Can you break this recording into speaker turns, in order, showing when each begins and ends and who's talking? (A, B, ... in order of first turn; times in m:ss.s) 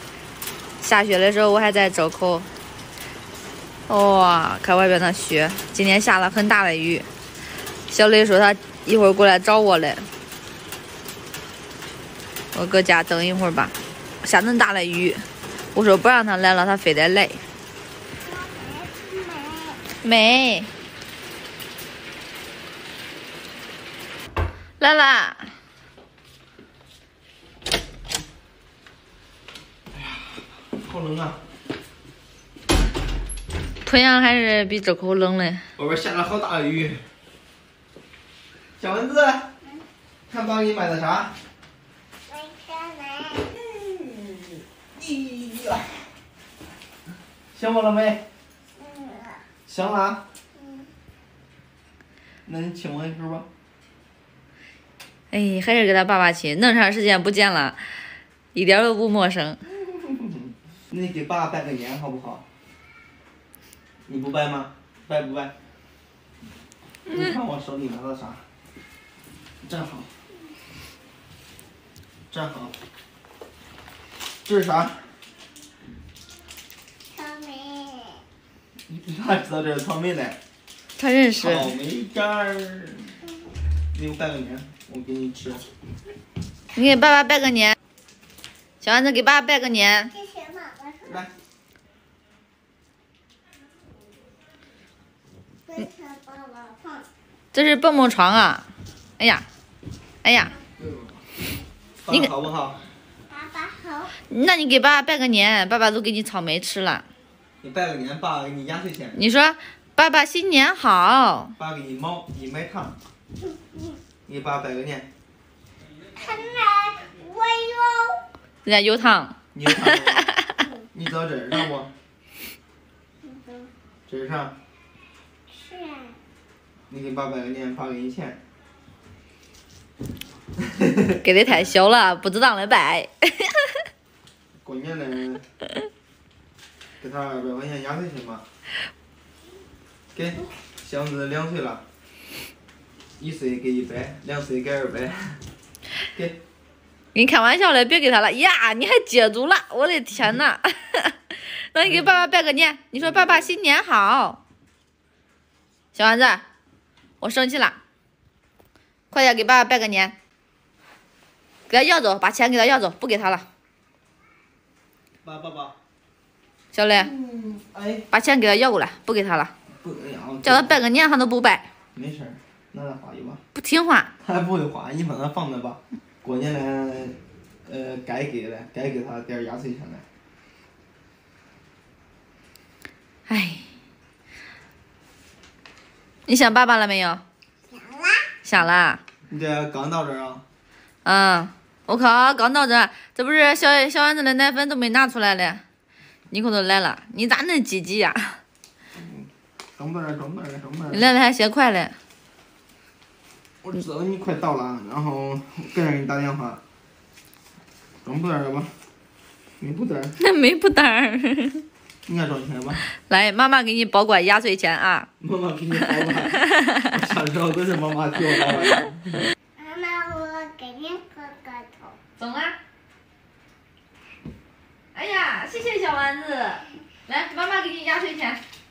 0:00.8-0:02.5 A
0:03.9-0:07.1 A
0:07.9-0:10.1 A
0:12.5-0:17.4 A
0:18.2-0:19.8 B
0:20.0-0:20.7 A
0:24.8-0:25.5 A
0:30.7-0:31.4 C
0:33.8-0:35.6 A
0:35.8-0:37.0 C
0:38.8-0:39.5 C
0:40.3-0:41.3 C
0:42.3-0:43.5 B
0:43.4-0:46.1 C
0:47.5-0:48.2 C
0:48.8-0:49.5 B
0:49.7-0:50.2 C
0:50.6-0:50.9 B
0:52.4-0:53.5 C
0:55.3-0:57.9 A
0:58.5-0:59.6 A
0:59.7-1:02.4 C
1:04.1-1:05.5 C
1:07.0-1:08.4 C
1:09.6-1:10.1 C
1:12.3-1:12.7 C
1:14.4-1:15.1 C
1:17.1-1:18.2 B
1:18.9-1:20.4 C
1:21.0-1:21.7 A
1:21.4-1:23.2 C
1:23.9-1:25.6 C
1:26.7-1:27.8 A
1:28.8-1:30.1 A
1:30.1-1:31.2 B
1:35.7-1:37.1 B
1:37.5-1:38.6 A
1:39.2-1:39.4 A
1:40.2-1:40.5 A
1:40.8-1:41.2 C
1:42.0-1:42.8 C
1:43.3-1:44.1 B
1:44.3-1:47.0 A
1:47.6-1:49.2 C
1:49.1-1:51.5 A
1:51.6-1:53.0 C
1:54.2-1:55.1 C
1:56.2-1:58.2 B
1:58.6-2:00.5 A
1:59.5-2:00.3 C
2:00.9-2:01.9 C
2:03.2-2:03.7 B
2:04.1-2:04.5 C
2:05.5-2:06.2 B
2:06.9-2:08.4 C
2:10.6-2:11.2 C
2:11.2-2:13.8 A
2:14.6-2:15.4 C
2:17.0-2:18.4 C
2:20.1-2:21.8 C
2:23.2-2:25.4 C
2:26.1-2:26.4 C
2:27.1-2:34.4 A
2:31.8-2:32.2 C
2:33.0-2:33.5 C
2:35.9-2:36.4 A
2:37.2-2:37.8 A
2:39.1-2:40.1 A
2:41.7-2:43.4 A
2:45.2-2:45.7 C
2:46.7-2:47.1 A
2:46.9-2:48.0 C
2:48.1-2:49.5 A
2:49.8-2:50.8 C
2:50.4-2:51.6 A
2:51.9-2:53.4 C
2:53.5-2:54.1 A
2:54.2-3:00.0 C
3:03.3-3:03.6 A
3:06.3-3:07.2 A
3:07.7-3:08.3 B
3:08.4-3:09.0 A
3:09.3-3:10.4 C
3:11.0-3:15.6 A
3:16.3-3:18.4 A
3:18.9-3:21.1 C
3:20.9-3:21.9 A
3:23.6-3:26.6 C
3:28.0-3:28.7 C
3:29.6-3:30.2 C
3:30.2-3:31.6 A
3:32.0-3:32.8 C
3:32.9-3:35.1 A
3:35.2-3:39.2 C
3:36.4-3:36.8 A
3:39.6-3:42.0 B
3:42.2-3:42.6 A
3:44.9-3:48.4 A